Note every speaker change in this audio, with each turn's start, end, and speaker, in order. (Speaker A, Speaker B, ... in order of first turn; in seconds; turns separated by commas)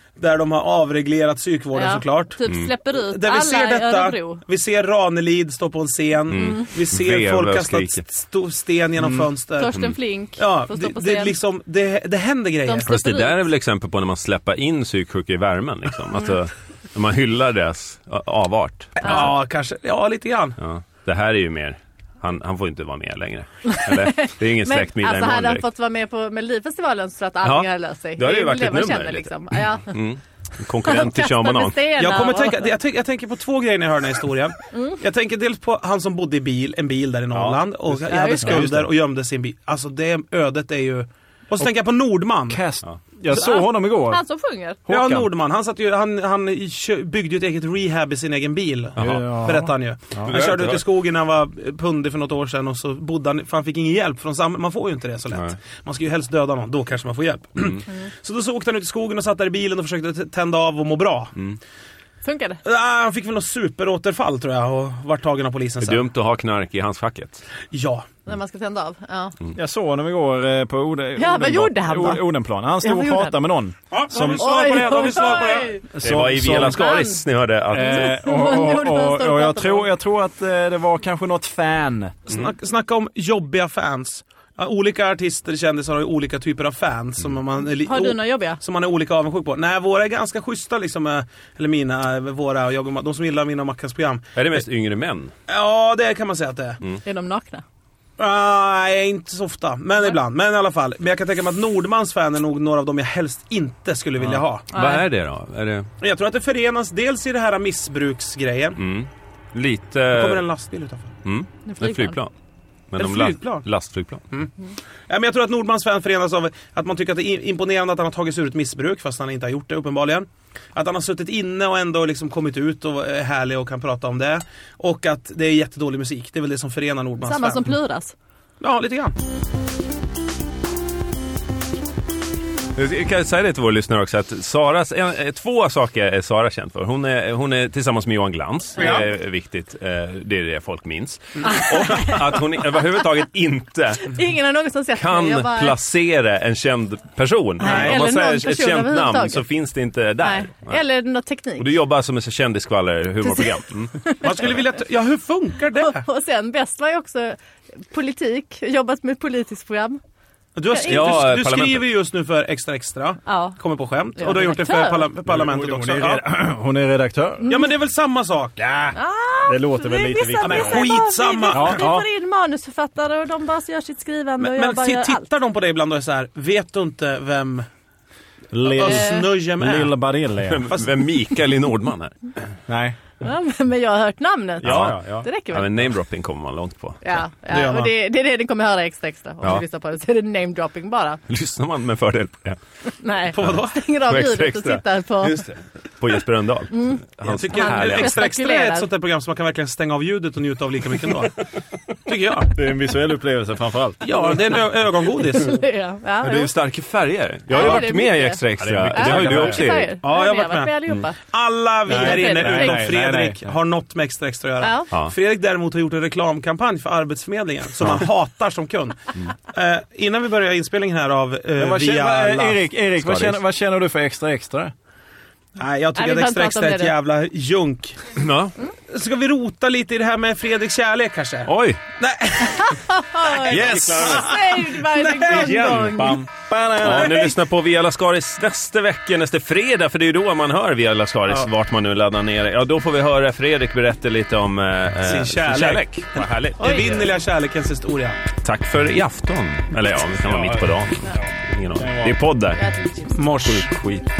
Speaker A: 0.2-2.4, Speaker B: 1.8-4.4, Speaker C: 2.5-2.7, Speaker A: 3.0-9.8, Speaker C: 6.3-8.0, Speaker B: 6.3-6.7, Speaker C: 9.0-9.9, Speaker B: 9.6-11.4, Speaker A: 10.4-12.9, Speaker B: 12.7-13.5, Speaker C: 12.9-19.4, Speaker A: 19.0-20.6, Speaker B: 19.0-19.3, Speaker C: 20.6-25.6, Speaker B: 23.7-30.0, Speaker C: 27.4-31.8, Speaker B: 30.8-32.7, Speaker A: 32.0-42.6, Speaker B: 34.7-35.0, Speaker C: 37.3-38.8, Speaker B: 38.1-38.6, Speaker D: 38.5-38.7, Speaker D: 42.5-44.2, Speaker B: 43.3-44.8, Speaker D: 44.9-45.3, Speaker A: 44.9-61.4, Speaker C: 49.0-49.3, Speaker D: 49.0-50.3, Speaker C: 50.2-50.8, Speaker B: 62.2-62.6, Speaker A: 62.6-66.0, Speaker C: 65.8-67.4, Speaker A: 67.7-68.1, Speaker B: 68.2-69.3, Speaker D: 69.5-74.7, Speaker B: 71.2-72.2, Speaker B: 72.8-73.3, Speaker A: 73.9-75.9, Speaker B: 74.1-75.9, Speaker D: 75.9-76.9, Speaker C: 76.0-78.1, Speaker B: 76.5-77.2, Speaker D: 77.7-82.2, Speaker B: 77.8-79.9, Speaker A: 82.3-94.6, Speaker B: 87.9-88.6, Speaker C: 94.3-95.3, Speaker A: 95.5-96.8, Speaker B: 97.0-97.6, Speaker A: 98.2-104.7, Speaker C: 104.2-105.9, Speaker B: 104.7-105.1, Speaker A: 106.0-108.8, Speaker C: 108.8-110.5, Speaker A: 110.1-111.1, Speaker C: 111.2-112.3, Speaker B: 111.7-112.2, Speaker C: 112.9-114.2, Speaker A: 113.0-113.7, Speaker A: 115.1-127.8, Speaker B: 127.2-128.1, Speaker A: 128.6-129.2, Speaker C: 132.8-144.2, Speaker A: 138.8-139.1, Speaker B: 141.4-142.2, Speaker B: 144.0-145.8, Speaker C: 144.9-150.8, Speaker B: 147.6-149.4, Speaker A: 147.6-148.0, Speaker B: 150.2-151.7, Speaker C: 151.6-154.6, Speaker B: 153.2-154.4, Speaker A: 154.2-156.1, Speaker B: 155.8-157.4, Speaker B: 157.9-160.0, Speaker A: 160.6-166.2, Speaker B: 160.7-161.2, Speaker C: 160.9-161.9, Speaker B: 163.2-163.6, Speaker B: 164.2-165.1, Speaker D: 165.3-167.5, Speaker B: 167.4-167.7, Speaker A: 167.5-168.6, Speaker D: 168.6-172.1, Speaker B: 168.9-175.3, Speaker A: 170.4-171.8, Speaker A: 174.4-177.7, Speaker D: 178.5-180.7, Speaker A: 178.7-179.9, Speaker B: 178.8-179.3, Speaker C: 180.5-182.3, Speaker D: 182.7-183.0, Speaker B: 183.2-185.7, Speaker D: 184.6-185.3, Speaker C: 184.6-187.1, Speaker B: 187.0-191.2, Speaker A: 187.5-187.9, Speaker C: 191.3-192.6, Speaker B: 193.0-195.4, Speaker A: 193.3-193.7, Speaker C: 193.4-198.3, Speaker B: 196.7-198.9, Speaker A: 197.2-201.4, Speaker A: 202.1-202.6, Speaker D: 202.6-204.4, Speaker A: 204.0-205.6, Speaker B: 205.2-206.5, Speaker C: 206.2-210.0, Speaker B: 207.5-211.2, Speaker D: 207.6-207.8, Speaker D: 208.6-209.8, Speaker A: 210.0-222.6, Speaker B: 211.9-212.9, Speaker D: 211.9-213.5, Speaker B: 214.6-214.9, Speaker D: 221.6-224.7, Speaker C: 223.0-223.4, Speaker A: 225.6-228.1, Speaker B: 226.0-226.9, Speaker C: 228.2-228.6, Speaker A: 228.9-236.2, Speaker C: 231.5-231.8, Speaker B: 232.5-236.2, Speaker C: 233.4-234.4, Speaker D: 233.6-234.2, Speaker D: 235.3-237.3, Speaker C: 235.3-236.1, Speaker C: 236.8-247.1, Speaker A: 245.1-245.8, Speaker A: 246.6-248.2, Speaker D: 246.7-247.1, Speaker C: 248.4-252.6, Speaker D: 250.3-252.2, Speaker B: 252.6-253.2, Speaker A: 253.1-254.0, Speaker C: 253.4-253.8